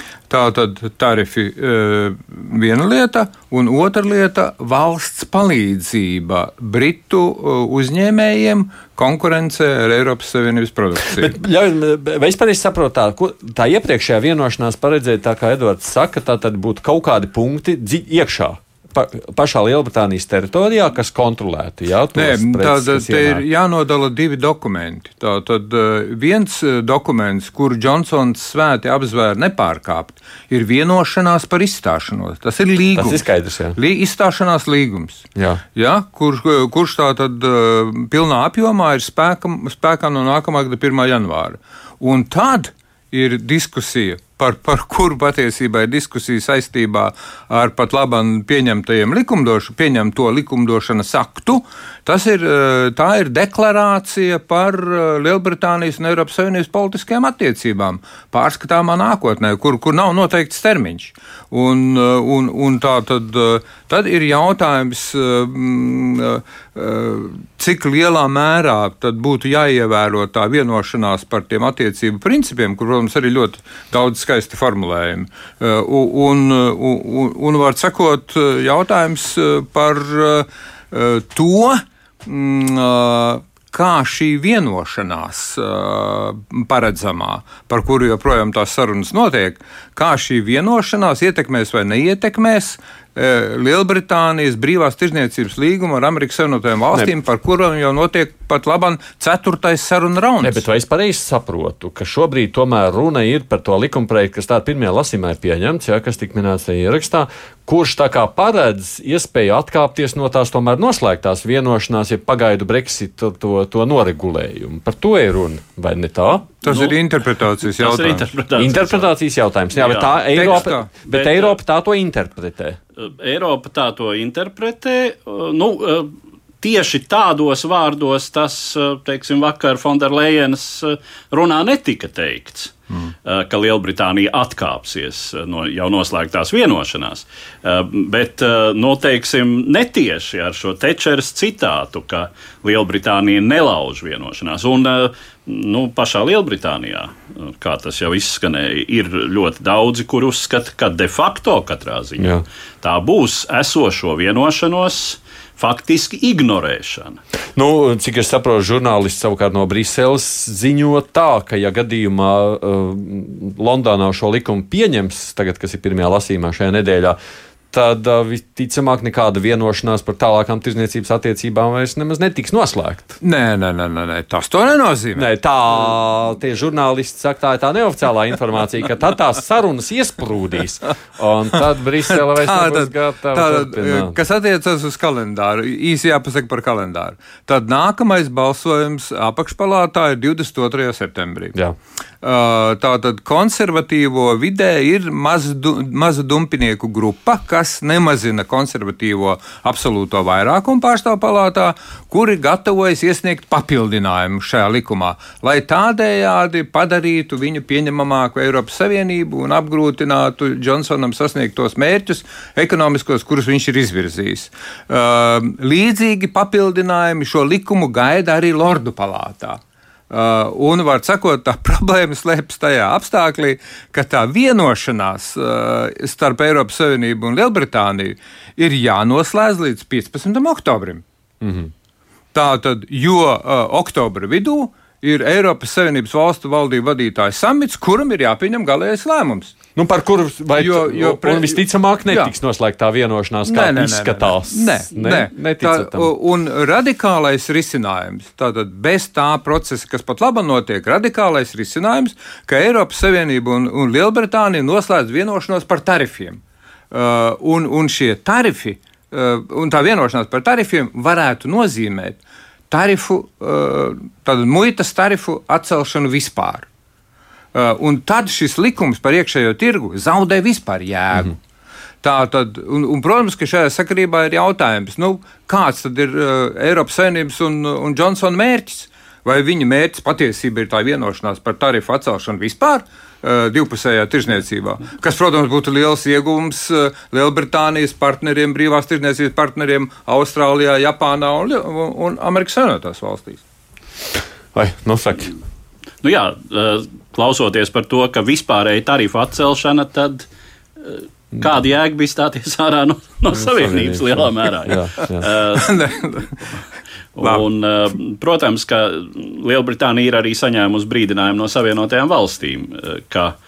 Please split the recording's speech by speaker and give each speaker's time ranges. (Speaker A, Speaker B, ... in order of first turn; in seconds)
Speaker A: 0.3-11.3, 22.1-33.2, 33.8-100.6, 116.6-118.3, 120.3-120.9, 173.2-175.3, 182.1-191.6, 192.2-231.0, 232.3-239.6, 240.6-242.3, 243.4-266.6, 267.5-271.4, 272.0-293.4, 305.5-306.4
Speaker B: 11.1-23.4, 32.9-33.8, 35.4-35.6, 100.4-116.5, 118.5-122.8, 152.2-152.4, 157.6-167.2, 167.7-173.2, 175.1-184.2, 231.4-231.7, 239.7-246.1, 294.5-295.3, 303.3-305.3
Speaker C: 116.7-117.0, 117.7-119.1, 119.8-121.6, 123.0-157.2, 296.0-300.2, 300.8-305.7, 307.1-313.3